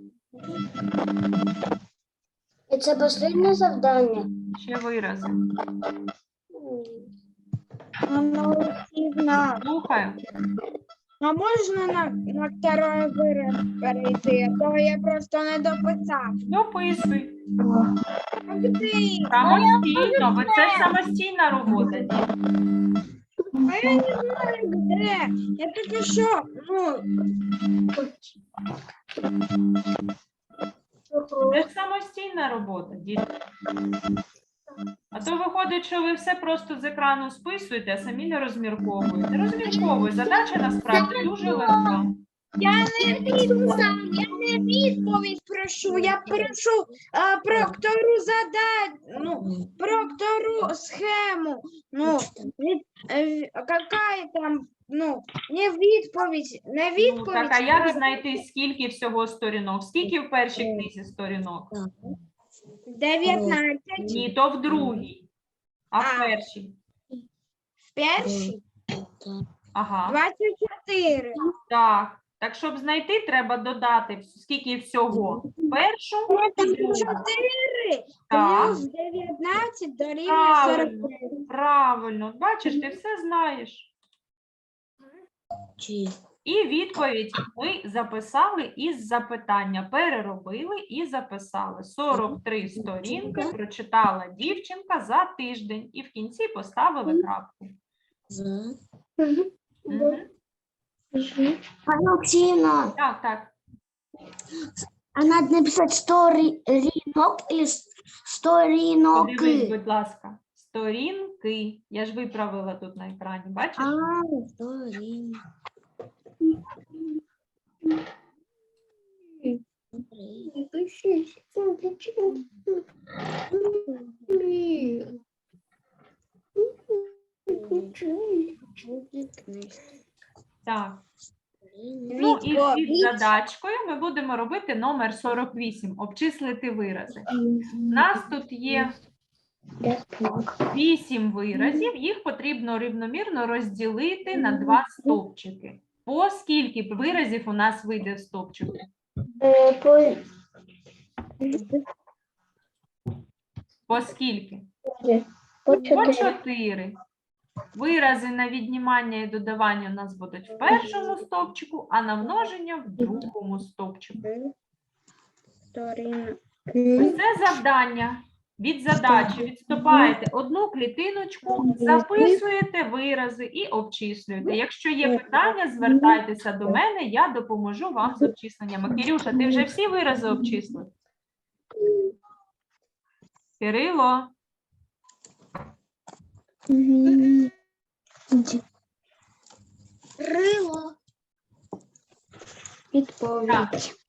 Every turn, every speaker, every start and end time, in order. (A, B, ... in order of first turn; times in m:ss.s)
0:02.7-0:04.3 A
0:04.5-0:05.4 B
0:08.0-0:09.6 C
0:09.6-0:10.2 B
0:11.2-0:16.4 C
0:16.5-0:17.4 B
0:18.5-0:20.9 C
0:19.3-0:22.3 B
0:23.6-0:27.0 C
0:23.7-0:24.0 D
0:31.1-0:31.5 D
0:31.5-0:33.3 B
0:35.1-0:42.1 B
0:41.0-0:41.7 A
0:42.6-0:58.3 C
0:43.1-0:43.7 A
0:45.9-0:46.4 A
0:49.2-0:49.7 A
0:52.0-0:52.5 A
0:57.0-1:01.7 B
1:00.0-1:00.9 A
1:01.7-1:02.2 A
1:02.9-1:04.3 C
1:03.2-1:05.0 A
1:04.1-1:05.3 B
1:05.9-1:06.8 B
1:06.0-1:06.3 C
1:07.9-1:08.6 C
1:08.2-1:09.4 A
1:09.7-1:10.2 B
1:10.1-1:11.4 C
1:11.7-1:17.1 B
1:16.3-1:21.3 C
1:18.3-1:18.8 B
1:20.2-1:23.9 B
1:25.8-1:26.2 A
1:26.4-1:37.7 B
1:32.1-1:33.5 A
1:38.3-1:38.7 A
1:39.2-1:40.2 D
1:39.9-1:40.2 B
1:41.1-1:41.6 D
1:41.9-1:42.9 A
1:43.0-1:43.5 B
1:45.1-1:49.7 A
1:49.1-1:54.0 B
1:53.8-1:55.4 A
1:59.9-2:00.5 A
2:00.6-2:01.0 D
2:01.6-2:02.2 D
2:07.5-2:08.0 C
2:08.8-2:09.8 C
2:10.6-2:11.0 B
2:11.7-2:12.1 A
2:12.1-2:13.3 C
2:12.2-2:17.3 B
2:17.9-2:18.9 B
2:19.8-2:20.6 D
2:20.7-2:28.8 B
2:24.4-2:24.8 D
2:29.4-2:30.2 D
2:31.4-2:31.7 D
2:31.5-2:31.8 C
2:33.9-2:34.6 B
2:34.8-2:36.4 D
2:35.7-2:37.0 B
2:37.7-2:44.2 B
2:40.5-2:41.2 C
2:44.1-2:44.5 C
2:45.7-2:47.2 C
2:47.0-3:00.9 B
2:49.1-2:50.2 C
2:51.5-2:52.4 C
2:55.0-2:56.8 C
2:59.3-2:59.7 C
3:03.6-3:04.3 B
3:06.7-3:07.5 C
3:08.3-3:08.6 C
3:10.2-3:10.8 A
3:12.9-3:13.9 C
3:13.4-3:13.7 B